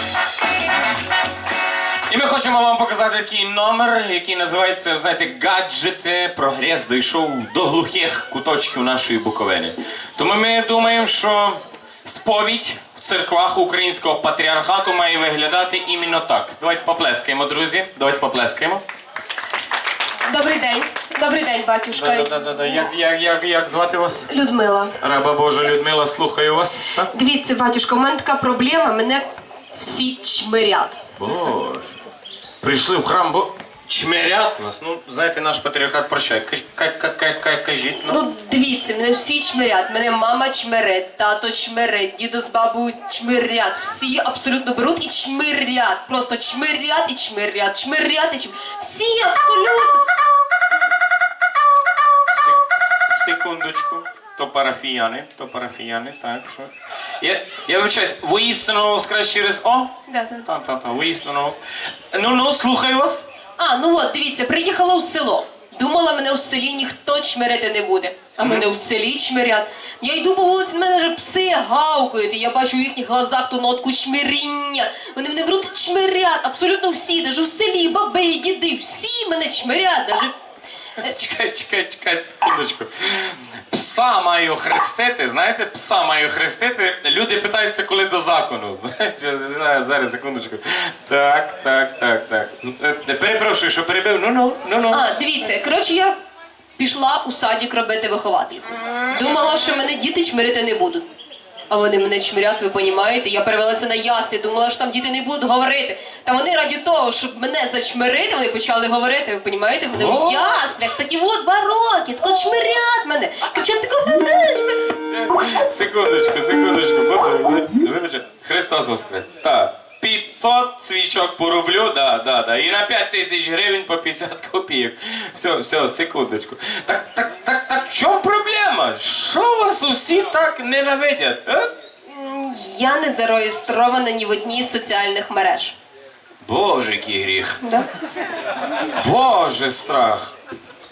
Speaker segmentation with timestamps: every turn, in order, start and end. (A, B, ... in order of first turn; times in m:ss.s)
0:02.1-0:18.8 A
0:20.3-0:22.3 B
0:21.9-0:24.3 A
0:24.3-0:25.0 B
0:25.0-0:27.1 A
0:27.1-0:31.0 B
0:31.2-0:32.0 A
0:32.6-0:38.2 A
0:38.1-0:50.1 B
0:52.3-1:01.6 A
1:00.1-1:00.4 B
1:02.1-1:03.2 A
1:03.6-1:20.3 B
1:08.4-1:08.7 A
1:21.0-1:35.0 A
1:34.9-1:36.2 B
1:36.8-1:41.1 B
1:41.7-1:54.9 B
1:49.9-1:50.7 A
1:54.9-2:11.7 A
2:12.1-2:15.7 B
2:16.4-2:17.6 A
2:19.0-2:20.3 A